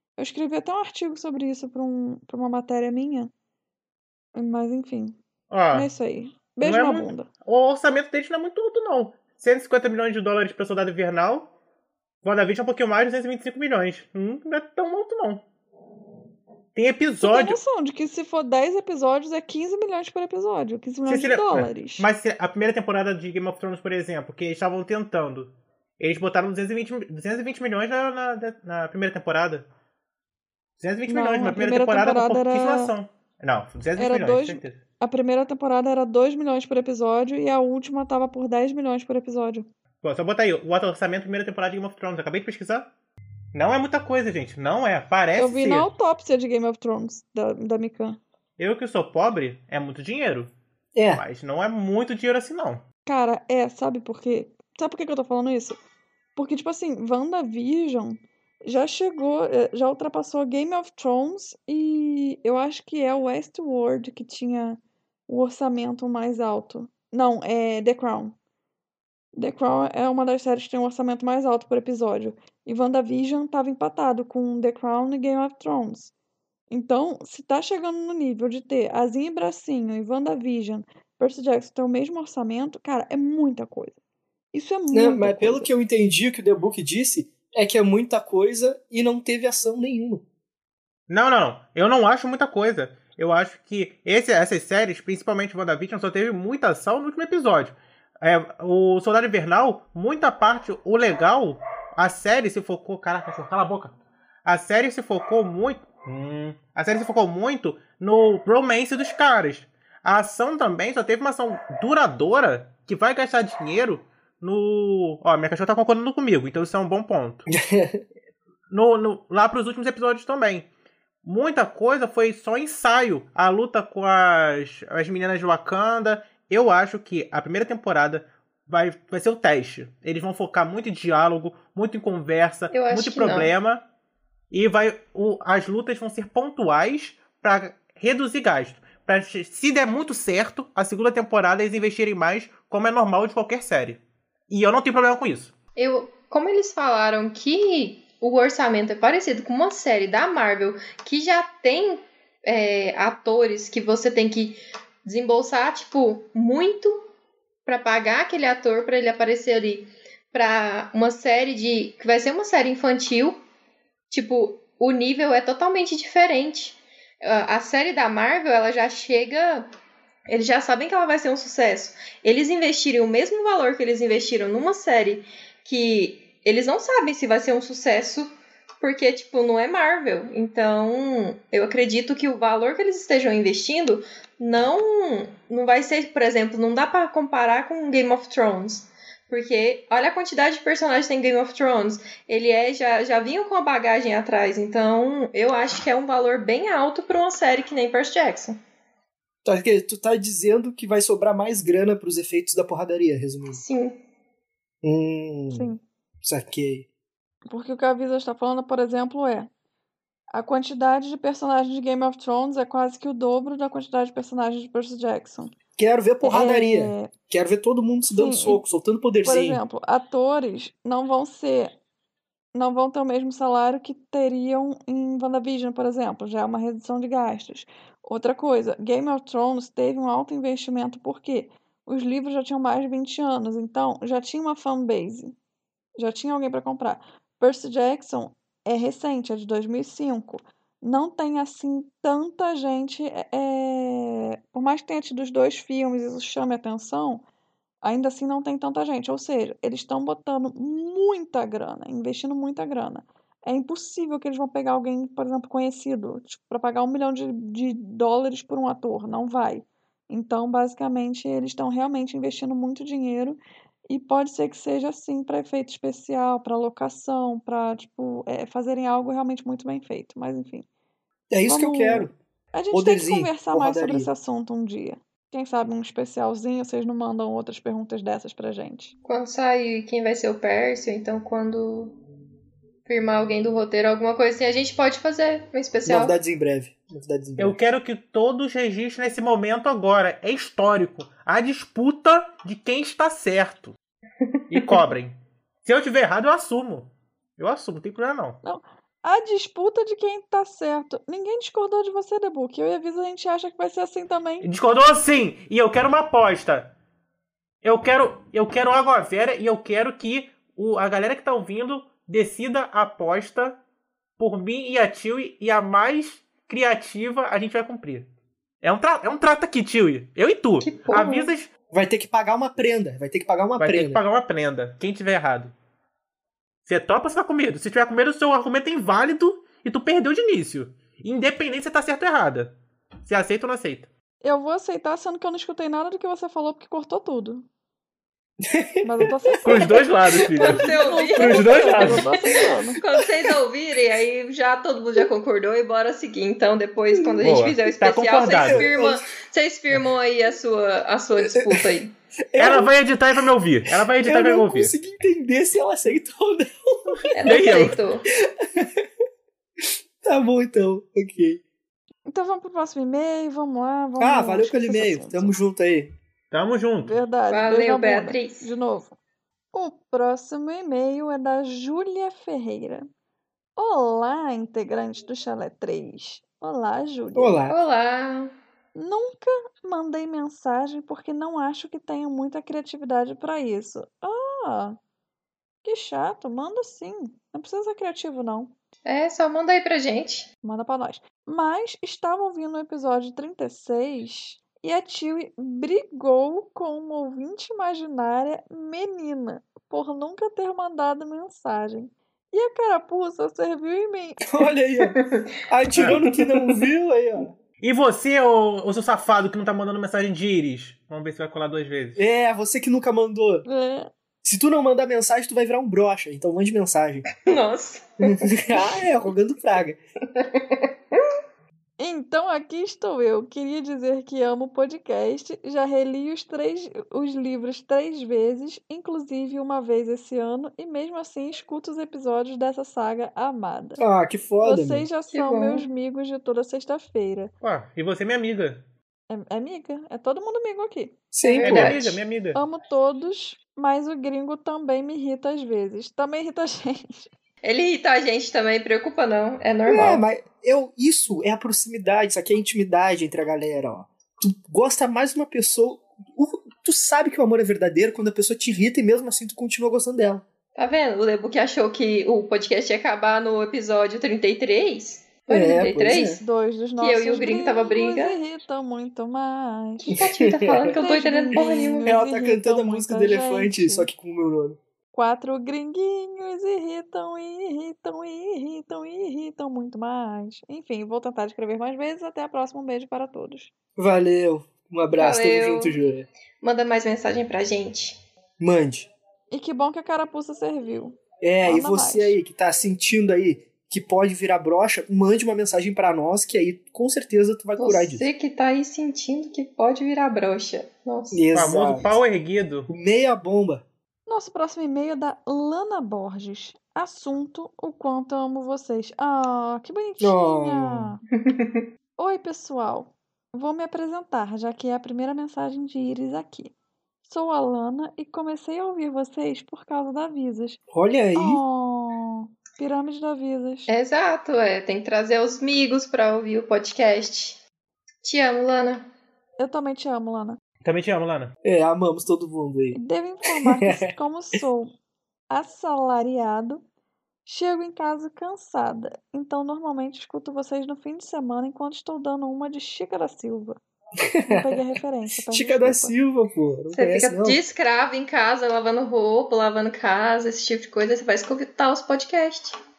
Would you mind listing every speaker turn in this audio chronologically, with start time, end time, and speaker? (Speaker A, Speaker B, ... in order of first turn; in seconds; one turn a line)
Speaker A: 0.2-3.3
Speaker A: 4.3-5.2
Speaker B: 5.5-5.9
Speaker A: 5.7-7.3
Speaker B: 6.6-11.5
Speaker B: 12.2-15.4
Speaker B: 16.7-17.6
Speaker A: 17.2-22.1
Speaker B: 21.1-29.7
Speaker B: 30.8-34.8
Speaker A: 31.1-32.9
Speaker A: 34.0-39.7
Speaker B: 40.0-42.9
Speaker B: 43.5-45.9
Speaker A: 45.3-48.2
Speaker B: 48.6-50.5
Speaker C: 50.9-51.2
Speaker B: 51.1-52.8
Speaker A: 53.0-55.8
Speaker A: 56.4-68.3
Speaker A: 69.4-76.1
Speaker A: 76.7-84.0
Speaker A: 84.5-85.7
Speaker C: 84.9-90.2
Speaker B: 91.1-117.5
Speaker C: 117.5-118.0
Speaker B: 118.7-120.7
Speaker B: 121.2-133.8
Speaker D: 132.7-133.5
Speaker B: 134.5-145.5
Speaker D: 145.8-157.0
Speaker D: 157.7-163.4
Speaker D: 164.1-169.7
Speaker D: 170.3-198.6
Speaker C: 199.4-203.6
Speaker D: 203.6-204.0
Speaker C: 204.8-205.7
Speaker A: 205.5-205.8
Speaker C: 206.2-206.9
Speaker A: 207.5-209.5
Speaker A: 210.3-215.5
Speaker C: 215.8-219.6
Speaker A: 216.2-217.1
Speaker A: 218.1-218.6
Speaker A: 219.2-221.8
Speaker A: 222.5-235.3
Speaker A: 236.0-247.2
Speaker A: 247.8-270.6
Speaker C: 271.3-272.1
Speaker A: 271.5-278.9
Speaker C: 272.7-274.1
Speaker D: 279.0-282.0
Speaker D: 282.9-286.1
Speaker C: 285.9-287.6
Speaker B: 287.4-293.8
Speaker B: 294.5-298.4
Speaker A: 298.4-304.5
Speaker B: 304.4-306.7
Speaker B: 307.6-313.6
Speaker B: 314.2-318.1
Speaker B: 318.6-321.5
Speaker D: 320.6-321.3
Speaker C: 321.7-324.0
Speaker B: 323.6-325.5
Speaker B: 326.6-333.9
Speaker A: 334.2-337.4
Speaker C: 338.4-339.8
Speaker A: 338.8-339.9
Speaker B: 339.4-342.1
Speaker D: 340.1-342.1
Speaker A: 340.4-342.8
Speaker D: 342.8-351.9
Speaker C: 342.9-343.4
Speaker C: 346.9-347.3
Speaker B: 347.2-348.7
Speaker C: 348.4-349.0
Speaker C: 351.3-351.7
Speaker C: 352.3-352.7
Speaker B: 352.4-354.7
Speaker C: 354.0-357.8
Speaker D: 357.1-358.1
Speaker B: 357.2-357.8
Speaker C: 358.4-358.9
Speaker C: 360.0-361.4
Speaker A: 362.1-365.4
Speaker C: 364.0-365.9
Speaker B: 366.3-366.9
Speaker A: 366.8-368.9
Speaker D: 367.3-368.5
Speaker A: 369.5-372.9
Speaker A: 373.6-377.4
Speaker C: 377.1-377.6
Speaker D: 377.5-378.3
Speaker A: 378.7-384.8
Speaker A: 385.6-388.5
Speaker D: 388.9-390.3
Speaker A: 390.4-404.2
Speaker C: 404.2-407.3
Speaker D: 404.8-405.2
Speaker D: 405.8-406.7
Speaker B: 407.6-412.1
Speaker C: 411.9-413.4
Speaker A: 413.4-413.9
Speaker C: 414.2-417.1
Speaker D: 417.2-418.9
Speaker C: 418.0-419.8
Speaker D: 420.1-421.0
Speaker A: 421.8-433.8
Speaker C: 433.8-434.9
Speaker A: 434.4-437.3
Speaker D: 435.1-435.6
Speaker B: 437.4-438.6
Speaker A: 439.1-441.0
Speaker C: 441.1-441.8
Speaker D: 441.2-442.0
Speaker B: 441.4-442.4
Speaker A: 442.3-447.1
Speaker D: 447.4-450.0
Speaker C: 449.7-460.2
Speaker D: 460.6-466.2
Speaker C: 465.3-466.2
Speaker A: 466.2-469.9
Speaker D: 466.8-468.2
Speaker D: 469.8-471.9
Speaker C: 469.9-470.8
Speaker A: 470.7-473.9
Speaker C: 471.3-474.6
Speaker A: 474.9-483.5
Speaker C: 483.8-486.1
Speaker D: 485.0-485.8
Speaker D: 486.4-488.0
Speaker C: 488.4-488.9
Speaker A: 489.3-492.2
Speaker C: 491.2-498.1
Speaker D: 497.6-501.2
Speaker C: 501.1-502.0
Speaker B: 501.3-502.7
Speaker C: 502.7-503.6
Speaker A: 504.1-511.0
Speaker C: 510.0-510.9
Speaker D: 511.2-511.6
Speaker A: 512.0-516.5
Speaker A: 517.0-520.6
Speaker C: 520.7-521.4
Speaker A: 521.1-523.7
Speaker D: 523.7-527.4
Speaker D: 528.0-528.9
Speaker A: 529.4-530.4
Speaker B: 530.6-531.3
Speaker C: 531.4-533.9
Speaker A: 532.7-534.7
Speaker A: 535.3-536.6
Speaker A: 537.2-543.6
Speaker C: 544.0-547.4
Speaker A: 544.2-545.9
Speaker D: 546.7-552.6